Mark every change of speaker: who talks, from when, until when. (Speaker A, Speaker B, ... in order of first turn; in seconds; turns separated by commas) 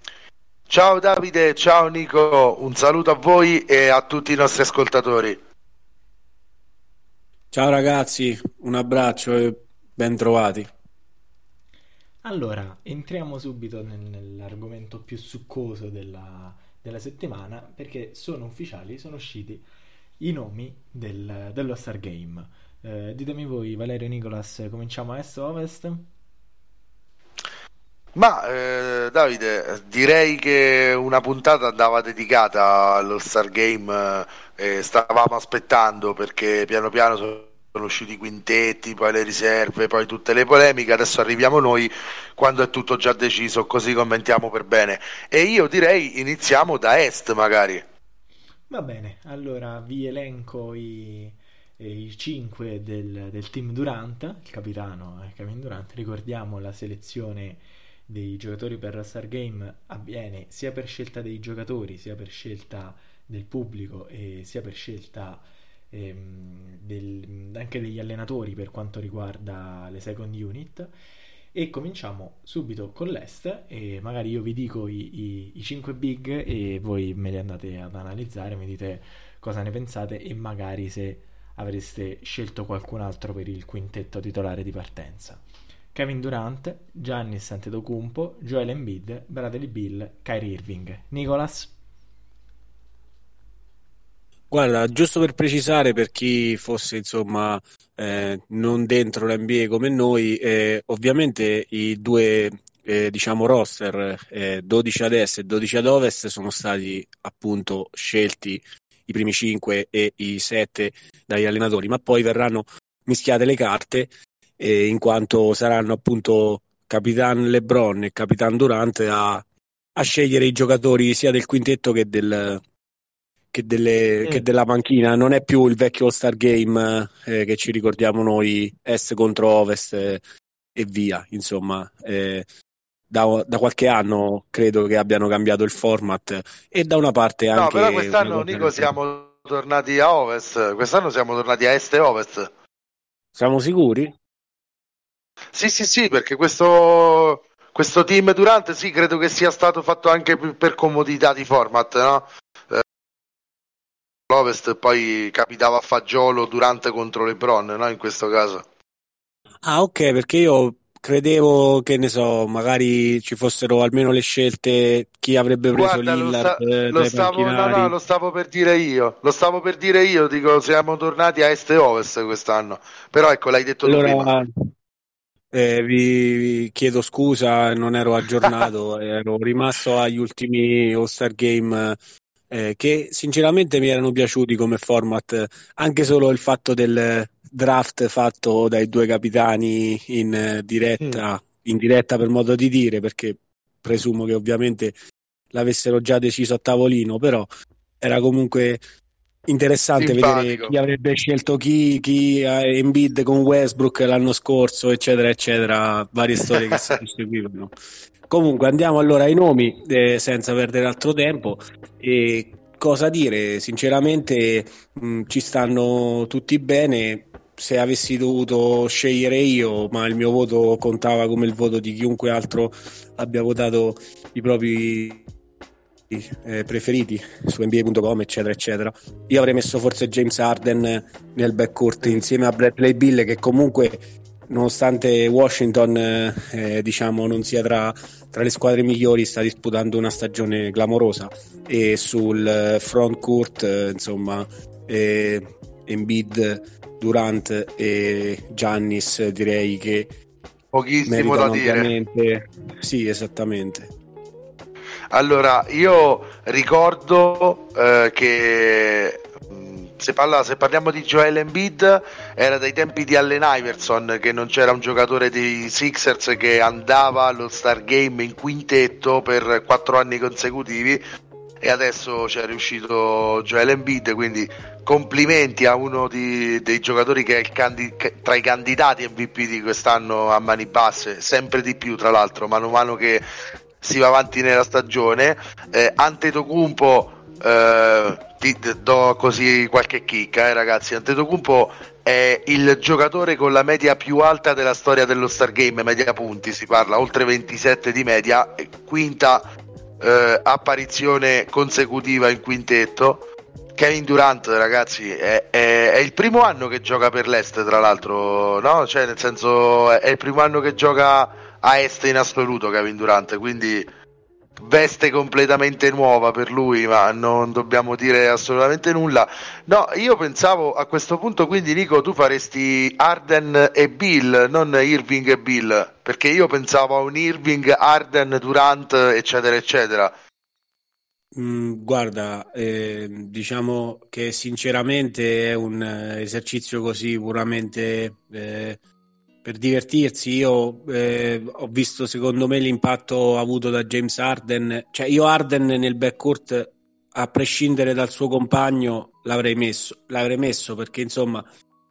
Speaker A: 0.7-5.4, Speaker B: 7.5-10.7, Speaker C: 12.2-19.7, Speaker C: 20.2-26.1, Speaker A: 28.1-47.8, Speaker C: 48.7-70.9, Speaker C: 71.5-91.7, Speaker B: 94.5-122.6, Speaker B: 123.5-130.2, Speaker B: 130.7-132.5, Speaker B: 133.1-138.9, Speaker A: 137.5-142.5, Speaker B: 143.3-144.1, Speaker A: 145.5-152.8, Speaker A: 154.3-158.6, Speaker B: 159.6-167.9, Speaker A: 165.7-174.3, Speaker B: 173.8-174.5, Speaker B: 175.5-182.0, Speaker B: 182.5-194.9, Speaker B: 195.5-197.5, Speaker B: 198.0-198.8, Speaker B: 199.5-207.7, Speaker A: 200.0-200.7, Speaker A: 206.5-207.0, Speaker B: 208.3-225.3, Speaker B: 226.1-250.1, Speaker A: 250.7-251.9, Speaker B: 251.1-253.9, Speaker A: 255.1-271.0, Speaker A: 271.6-283.2, Speaker A: 283.8-299.4, Speaker A: 300.0-313.9, Speaker A: 314.6-330.1, Speaker B: 331.3-338.8, Speaker B: 339.4-351.4